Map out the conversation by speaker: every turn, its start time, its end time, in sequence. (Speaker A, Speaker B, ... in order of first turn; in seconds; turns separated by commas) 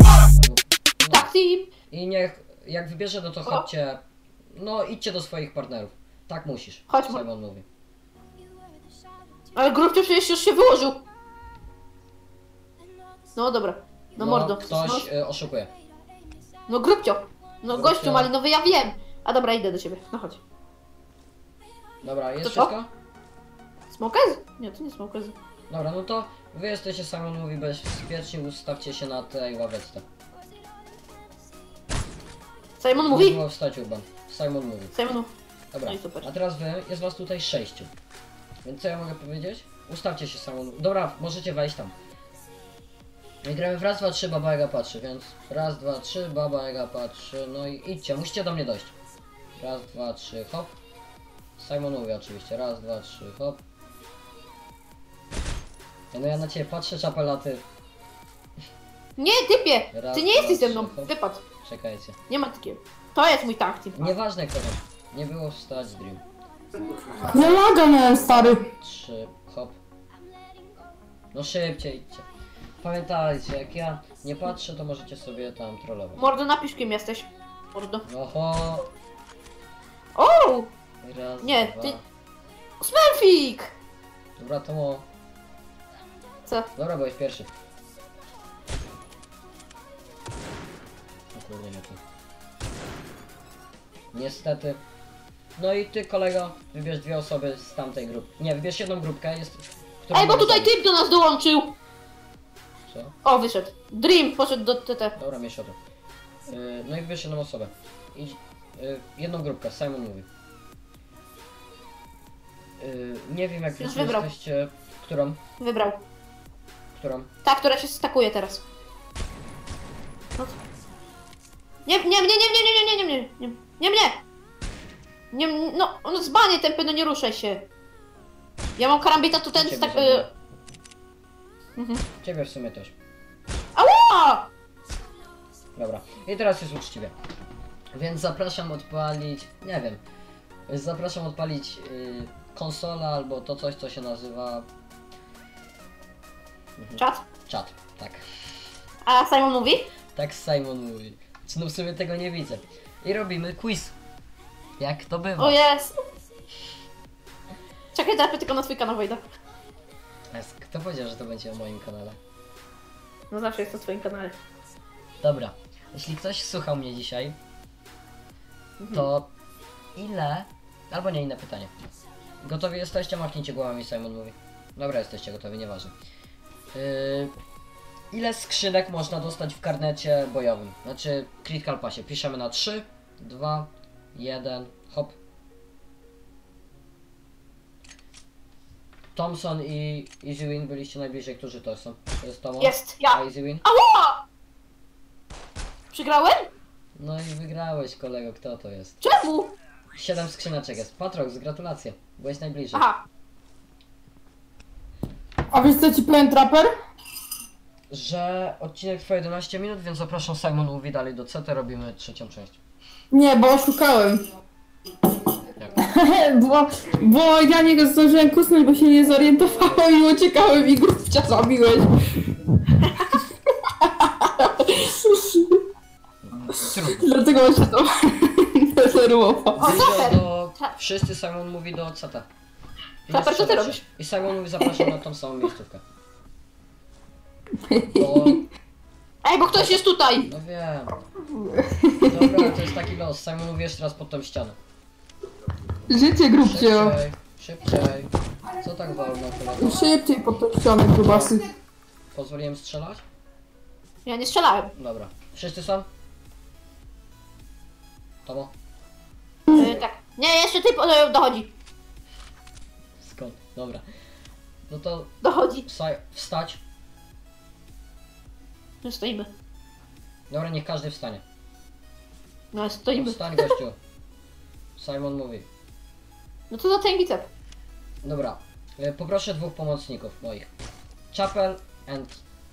Speaker A: 0.3-1.3, Speaker B: 1.1-1.7, Speaker A: 1.9-4.0, Speaker A: 4.5-7.6, Speaker B: 6.9-7.2, Speaker B: 9.6-11.0, Speaker B: 13.4-15.1, Speaker A: 14.2-15.7, Speaker B: 16.7-20.4, Speaker A: 17.7-18.3, Speaker A: 22.0-22.9, Speaker B: 22.4-22.7, Speaker B: 23.9-25.4, Speaker A: 25.7-30.0, Speaker B: 32.8-33.4, Speaker A: 32.9-34.9, Speaker B: 34.9-35.3, Speaker A: 35.7-37.9, Speaker B: 35.9-36.3, Speaker A: 38.6-41.9, Speaker A: 43.4-49.0, Speaker A: 49.5-50.7, Speaker A: 51.6-53.6, Speaker A: 56.1-57.6, Speaker B: 59.2-61.5, Speaker A: 59.9-62.2, Speaker B: 62.3-64.1, Speaker A: 64.0-66.2, Speaker C: 67.2-68.6, Speaker A: 67.3-69.8, Speaker A: 71.3-72.2, Speaker A: 72.8-76.3, Speaker B: 76.2-78.0, Speaker A: 78.0-78.9, Speaker B: 80.2-80.7, Speaker A: 81.0-82.0, Speaker B: 81.4-82.0, Speaker B: 82.8-83.7, Speaker A: 84.4-85.0, Speaker A: 86.8-87.5, Speaker A: 91.3-92.0, Speaker A: 94.1-94.8, Speaker A: 95.6-100.8, Speaker B: 100.1-101.8, Speaker A: 102.9-103.1, Speaker B: 103.2-105.1, Speaker A: 105.2-105.8, Speaker A: 106.5-110.3, Speaker A: 112.8-115.4, Speaker B: 113.8-114.2, Speaker B: 115.6-116.0, Speaker A: 116.9-117.3, Speaker B: 117.5-118.6, Speaker B: 121.9-124.2, Speaker B: 125.3-127.7, Speaker B: 128.8-130.3, Speaker A: 129.5-130.3, Speaker B: 131.8-132.0, Speaker A: 132.2-132.9, Speaker B: 133.8-134.5, Speaker A: 135.8-137.1, Speaker A: 137.9-140.0, Speaker A: 140.7-144.7, Speaker A: 146.8-148.2, Speaker B: 147.0-147.3, Speaker B: 149.1-149.9, Speaker A: 150.1-154.0, Speaker A: 154.8-155.6, Speaker B: 155.4-156.0, Speaker B: 157.9-159.2, Speaker A: 160.3-162.2, Speaker B: 163.3-164.4, Speaker A: 165.2-167.4, Speaker B: 168.8-169.1, Speaker A: 168.9-169.3, Speaker A: 170.0-171.7, Speaker A: 172.4-175.9, Speaker A: 176.7-177.3, Speaker A: 178.1-185.2, Speaker A: 189.1-193.6, Speaker B: 192.6-194.2, Speaker B: 195.9-196.5, Speaker A: 197.0-199.1, Speaker B: 199.0-199.5, Speaker A: 199.9-202.8, Speaker B: 202.8-203.0, Speaker C: 205.5-206.8, Speaker A: 207.9-212.6, Speaker C: 213.1-214.2, Speaker C: 215.8-222.1, Speaker C: 223.8-225.6, Speaker A: 226.2-227.1, Speaker C: 226.7-229.8, Speaker A: 229.6-232.3, Speaker B: 229.6-230.7, Speaker A: 233.1-235.8, Speaker B: 233.1-233.8, Speaker C: 237.7-238.4, Speaker A: 237.9-238.4, Speaker B: 239.2-240.3, Speaker A: 239.4-241.0, Speaker C: 241.3-242.5, Speaker A: 242.0-244.6, Speaker C: 245.9-247.0, Speaker A: 246.4-249.9, Speaker C: 249.6-251.5, Speaker A: 251.0-251.4, Speaker A: 252.1-253.0, Speaker B: 254.1-254.7, Speaker A: 254.8-255.9, Speaker A: 258.2-258.5, Speaker C: 259.5-259.8, Speaker B: 259.6-261.5, Speaker A: 263.0-263.8, Speaker A: 264.7-265.1, Speaker B: 265.2-265.7, Speaker A: 265.6-266.6, Speaker B: 268.8-269.3, Speaker A: 270.3-271.2, Speaker B: 272.5-273.5, Speaker A: 272.9-273.8, Speaker A: 274.8-275.5, Speaker B: 276.5-277.3, Speaker A: 278.0-280.5, Speaker A: 281.1-282.2